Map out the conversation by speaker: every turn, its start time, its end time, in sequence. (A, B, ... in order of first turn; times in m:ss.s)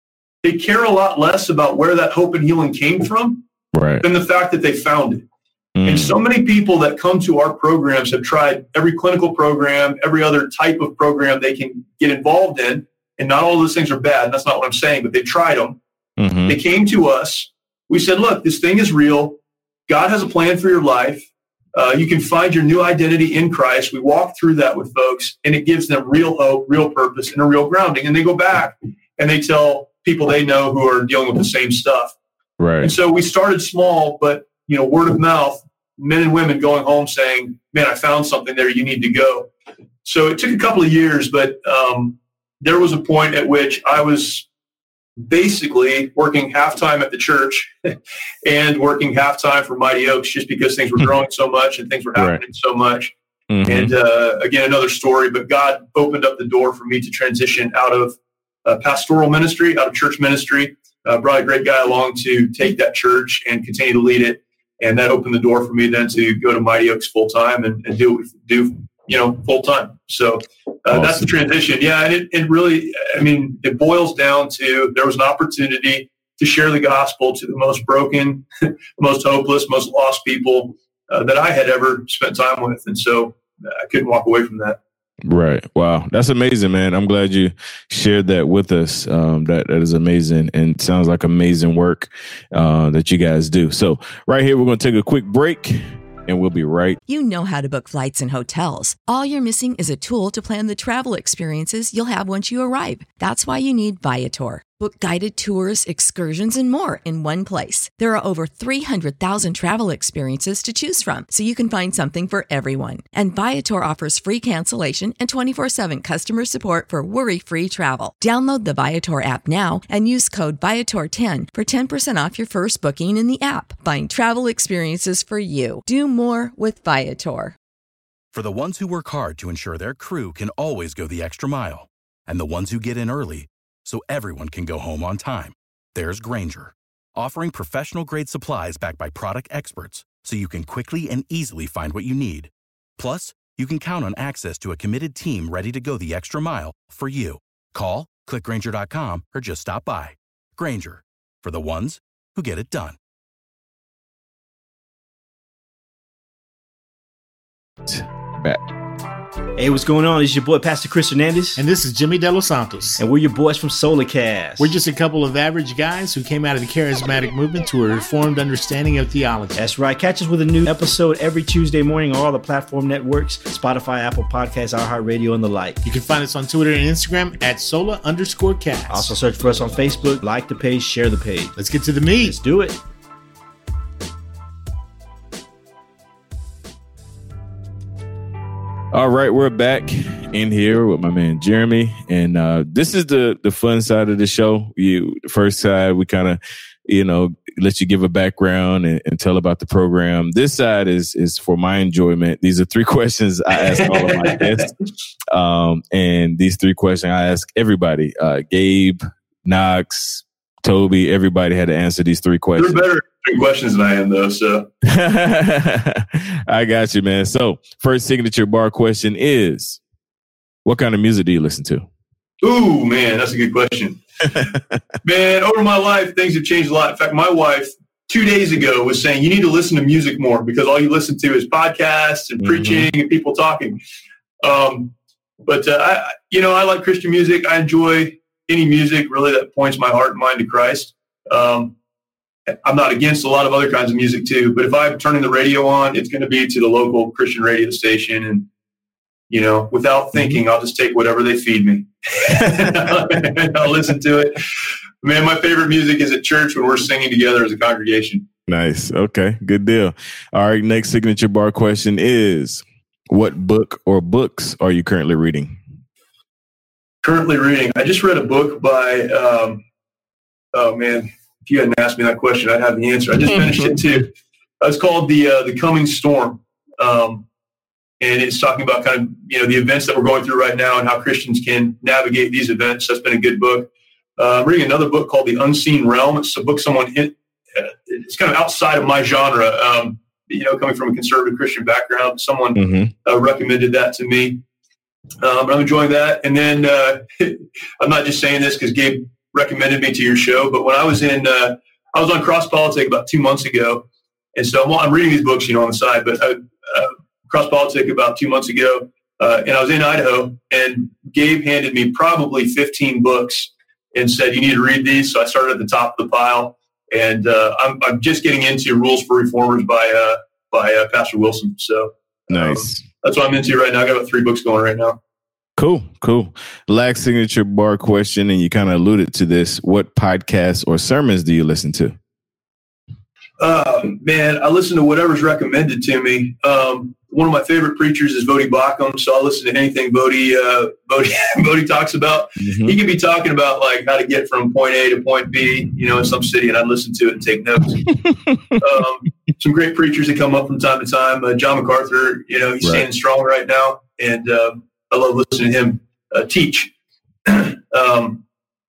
0:00.4-0:03.4 A
0:03.7-0:04.0 B
0:04.0-0:05.2 A
0:05.8-0:06.2 B
0:05.8-0:15.8 A
0:16.2-0:16.6 B
0:16.5-0:32.1 A
0:32.6-0:32.9 B
0:32.8-0:39.5 A
0:40.0-0:44.4 A
0:45.2-0:47.9 A
0:48.4-0:53.1 A
0:53.5-0:53.9 B
0:53.6-1:18.4 A
1:10.9-1:11.3 B
1:19.0-1:24.8 A
1:25.2-1:37.0 B
1:37.1-2:07.6 C
2:08.3-2:33.0 D
2:37.8-2:38.6 B
2:39.6-2:41.6 E
2:41.6-2:43.0 F
2:43.0-2:44.8 E
2:44.6-2:49.6 F
2:49.5-2:55.8 E
2:55.8-2:59.2 F
2:58.9-3:01.6 E
3:01.6-3:02.4 F
3:02.2-3:02.8 E
3:08.9-3:24.7 B
3:23.7-3:24.7 A
3:25.3-3:32.8 B
3:32.6-3:34.7 A
3:34.8-3:39.8 B
3:40.6-3:41.8 B
3:42.4-3:44.0 A
3:45.0-3:53.8 A
3:52.4-3:52.9 B
3:54.4-3:54.9 A
3:55.4-4:01.7 A
4:02.5-4:08.4 A
4:09.3-4:14.4 A
4:15.0-4:18.2 A
4:18.5-4:25.6 B
4:27.0-4:29.6 A
4:30.5-4:37.2 A
4:33.3-4:33.8 B
4:38.0-4:54.4 A
4:52.5-4:52.9 B
4:55.2-5:03.8 A
5:04.3-5:25.0 A
5:22.3-5:22.8 B
5:25.6-5:32.0 B
5:33.4-5:48.0 A
5:42.4-5:42.8 B
5:48.1-5:48.4 B
5:48.5-5:56.7 A
5:57.2-5:58.2 A